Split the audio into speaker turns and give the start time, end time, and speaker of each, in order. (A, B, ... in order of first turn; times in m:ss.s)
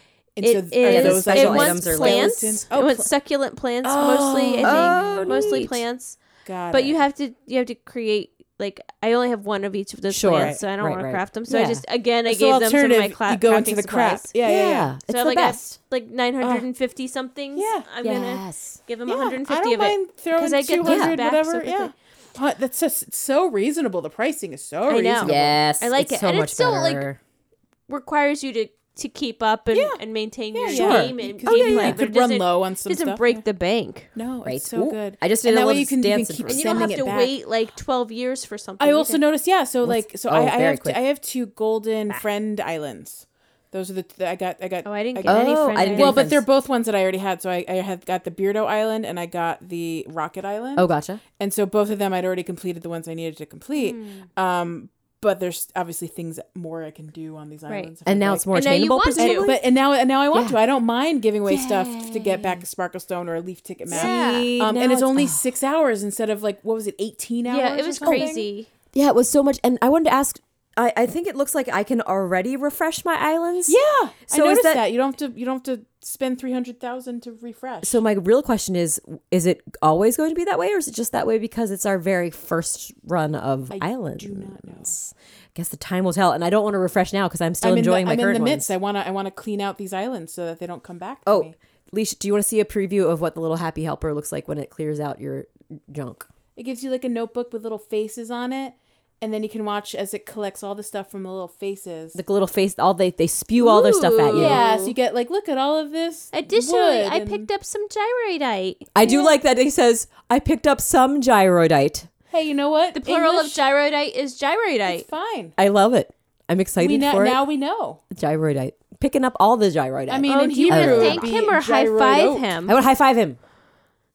0:00.4-0:03.1 A
0:00.4-0:06.2 B
0:00.8-0:02.4 C
0:03.8-0:05.8 C
0:04.6-0:05.6 A
0:06.4-0:07.0 A
0:06.7-0:14.3 B
0:10.1-0:11.8 C
0:10.3-0:10.6 A
0:12.2-0:14.9 A
0:14.4-0:15.8 C
0:15.1-0:21.9 B
0:16.4-0:16.7 A
0:17.6-0:17.9 A
0:18.0-0:18.8 C
0:19.1-0:25.6 A
0:20.8-0:21.2 C
0:24.9-0:27.0 B
0:25.2-0:27.2 C
0:27.9-0:34.1 B
0:29.7-0:30.0 A
0:30.5-0:33.4 A
0:30.7-0:32.0 C
0:34.2-0:37.4 A
0:34.4-0:37.0 C
0:36.5-0:39.2 B
0:38.8-0:58.6 A
0:39.8-0:41.0 C
0:44.8-0:46.3 B
0:45.2-0:46.4 C
0:50.8-0:51.2 C
0:53.8-0:54.3 B
0:58.1-0:59.6 C
0:58.5-0:59.6 B
0:59.2-1:08.5 A
1:00.3-1:00.6 C
1:01.5-1:02.6 C
1:03.9-1:05.4 C
1:03.9-1:04.6 B
1:07.5-1:08.7 B
1:08.0-1:08.3 C
1:08.9-1:13.8 C
1:13.7-1:18.0 A
1:14.3-1:14.8 C
1:17.8-1:28.7 C
1:23.7-1:25.0 A
1:27.6-1:31.6 A
1:31.3-1:36.3 C
1:36.6-1:42.2 A
1:42.2-1:44.6 C
1:43.6-1:45.0 B
1:44.2-1:47.5 A
1:46.3-1:49.3 B
1:48.9-1:52.1 C
1:52.3-1:53.6 A
1:52.9-1:55.1 B
1:54.9-1:55.6 A
1:55.6-1:57.4 C
1:56.8-1:58.0 A
1:58.1-2:01.3 C
2:00.1-2:02.5 A
2:00.3-2:02.8 B
2:02.7-2:03.4 C